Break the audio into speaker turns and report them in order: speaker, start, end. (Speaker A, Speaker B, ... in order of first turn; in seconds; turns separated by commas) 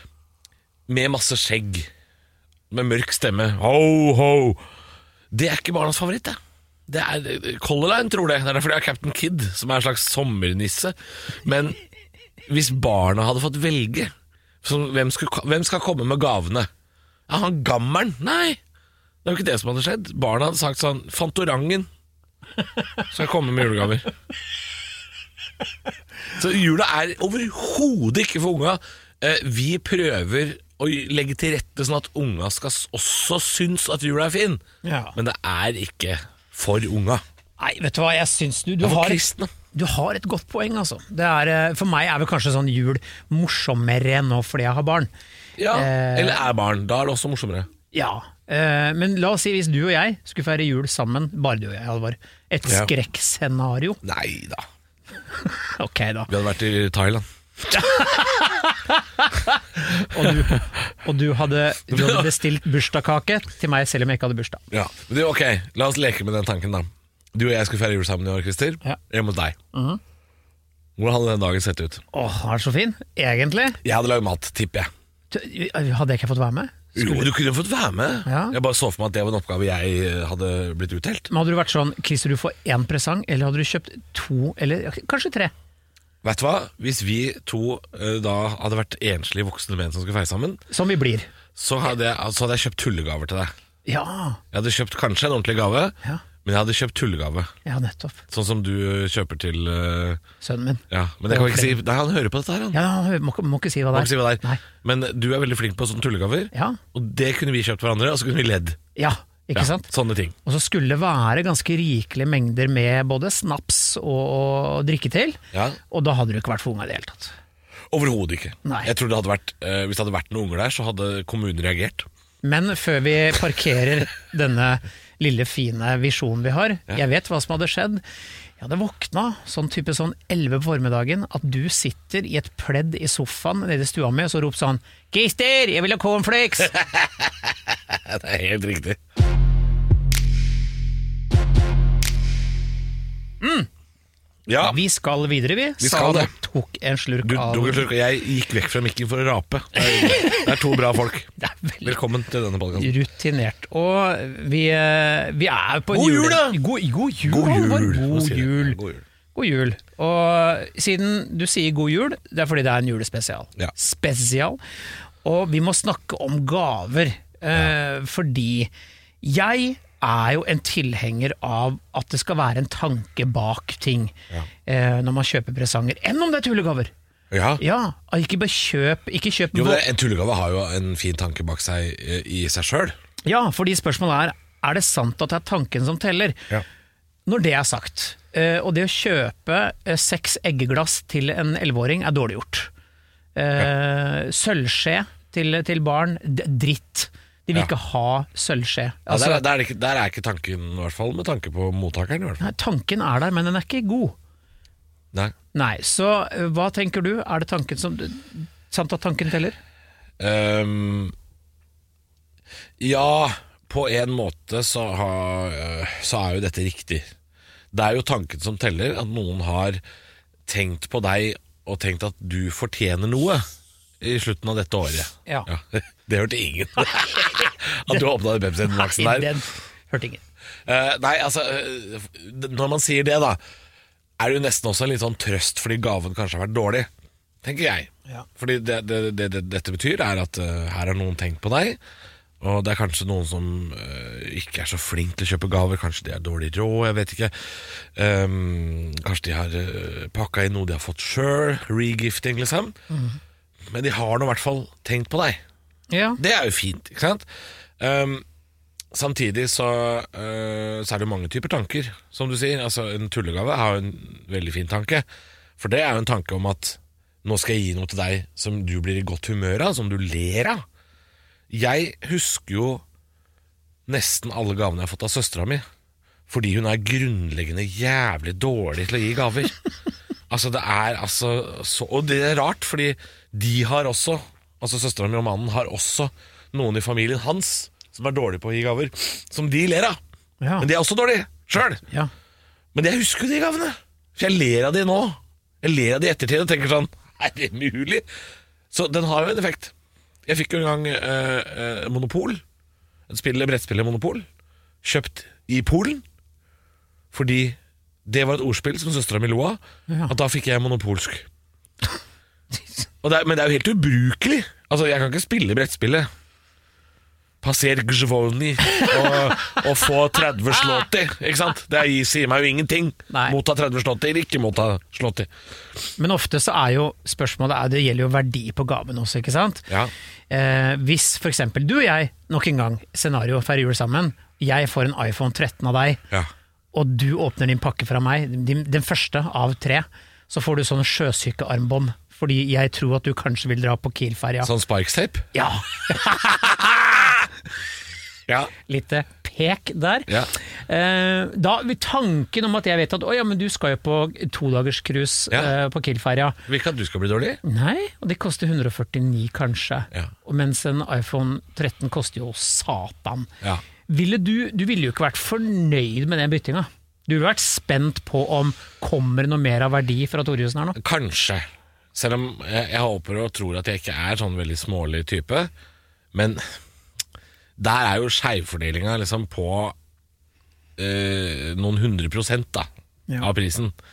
Speaker A: 0.9-1.9, Speaker A: 2.7-4.6, Speaker A: 5.3-11.8, Speaker A: 12.5-14.1, Speaker A: 14.6-16.7, Speaker A: 17.3-18.6, Speaker A: 19.2-21.9, Speaker A: 23.1-24.1, Speaker A: 26.3-34.6, Speaker B: 34.8-35.1, Speaker A: 35.1-37.2, Speaker B: 37.6-45.1, Speaker A: 38.8-39.5, Speaker A: 45.6-47.7, Speaker B: 45.7-46.4, Speaker B: 47.9-54.0, Speaker A: 52.6-52.9, Speaker A: 54.0-54.6, Speaker B: 55.4-56.3, Speaker A: 56.3-57.2, Speaker B: 57.7-64.6, Speaker A: 61.9-62.3, Speaker A: 64.7-69.6, Speaker B: 69.7-70.0, Speaker A: 71.0-72.0, Speaker B: 72.1-73.8, Speaker A: 73.8-74.9, Speaker B: 75.3-77.3, Speaker A: 76.9-81.3, Speaker B: 78.2-78.5, Speaker B: 81.3-85.5, Speaker A: 86.2-90.6, Speaker B: 90.7-91.3, Speaker A: 91.5-93.5, Speaker B: 93.8-94.4, Speaker A: 94.5-97.5, Speaker B: 97.6-98.2, Speaker A: 98.3-100.2, Speaker B: 100.4-101.8, Speaker A: 100.9-102.8, Speaker B: 102.7-104.6, Speaker A: 103.9-108.8, Speaker B: 106.5-106.8, Speaker B: 109.0-109.9, Speaker A: 109.5-110.3, Speaker B: 110.4-117.3, Speaker A: 115.5-115.8, Speaker A: 117.9-122.1, Speaker B: 118.6-118.9, Speaker B: 122.4-128.0, Speaker B: 128.6-136.8, Speaker A: 136.7-139.0, Speaker B: 143.4-143.7, Speaker A: 144.5-144.8, Speaker B: 144.6-147.8, Speaker A: 145.8-146.3, Speaker A: 147.2-151.3, Speaker B: 149.9-150.5, Speaker B: 151.4-151.9, Speaker A: 151.8-152.9, Speaker B: 152.7-158.8, Speaker A: 155.9-156.6, Speaker A: 157.2-159.0, Speaker B: 159.3-164.6, Speaker B: 165.2-168.7, Speaker B: 169.2-174.1, Speaker B: 174.7-176.9, Speaker A: 177.3-177.6, Speaker B: 177.6-179.8, Speaker A: 179.5-182.9, Speaker B: 183.2-186.5, Speaker B: 187.2-192.7, Speaker B: 193.3-199.4, Speaker A: 199.1-202.5, Speaker B: 202.4-204.2, Speaker B: 205.5-209.6, Speaker A: 210.2-211.1, Speaker A: 212.8-217.1, Speaker A: 217.7-219.8, Speaker A: 220.5-223.4, Speaker A: 224.0-229.3, Speaker B: 227.0-228.0, Speaker B: 228.7-230.2, Speaker A: 230.7-233.4, Speaker A: 234.2-236.9, Speaker A: 237.4-241.8, Speaker A: 242.4-252.8, Speaker B: 252.9-253.2, Speaker A: 253.7-255.4, Speaker B: 255.9-256.2, Speaker A: 256.2-257.2, Speaker A: 257.8-258.2, Speaker A: 258.9-265.1, Speaker A: 265.6-270.6, Speaker A: 271.5-272.8, Speaker A: 273.9-275.6, Speaker A: 276.3-279.6, Speaker A: 280.3-290.0, Speaker B: 290.4-290.7, Speaker A: 290.6-291.8, Speaker A: 292.7-298.0, Speaker A: 298.7-299.7, Speaker A: 300.2-302.4, Speaker A: 303.1-304.2, Speaker A: 304.8-306.0, Speaker A: 307.1-311.3, Speaker B: 309.9-310.1, Speaker A: 313.0-316.1, Speaker A: 317.4-325.3, Speaker B: 323.1-323.4, Speaker B: 326.0-329.7, Speaker B: 330.3-336.0, Speaker B: 336.7-344.5, Speaker A: 344.4-345.3, Speaker B: 345.3-347.2, Speaker A: 348.3-348.5, Speaker B: 348.6-356.4, Speaker A: 356.5-357.4, Speaker B: 357.4-363.3, Speaker B: 363.9-370.8, Speaker A: 370.8-375.5, Speaker A: 376.1-376.4, Speaker A: 377.6-379.7, Speaker A: 380.8-382.7, Speaker A: 383.2-383.7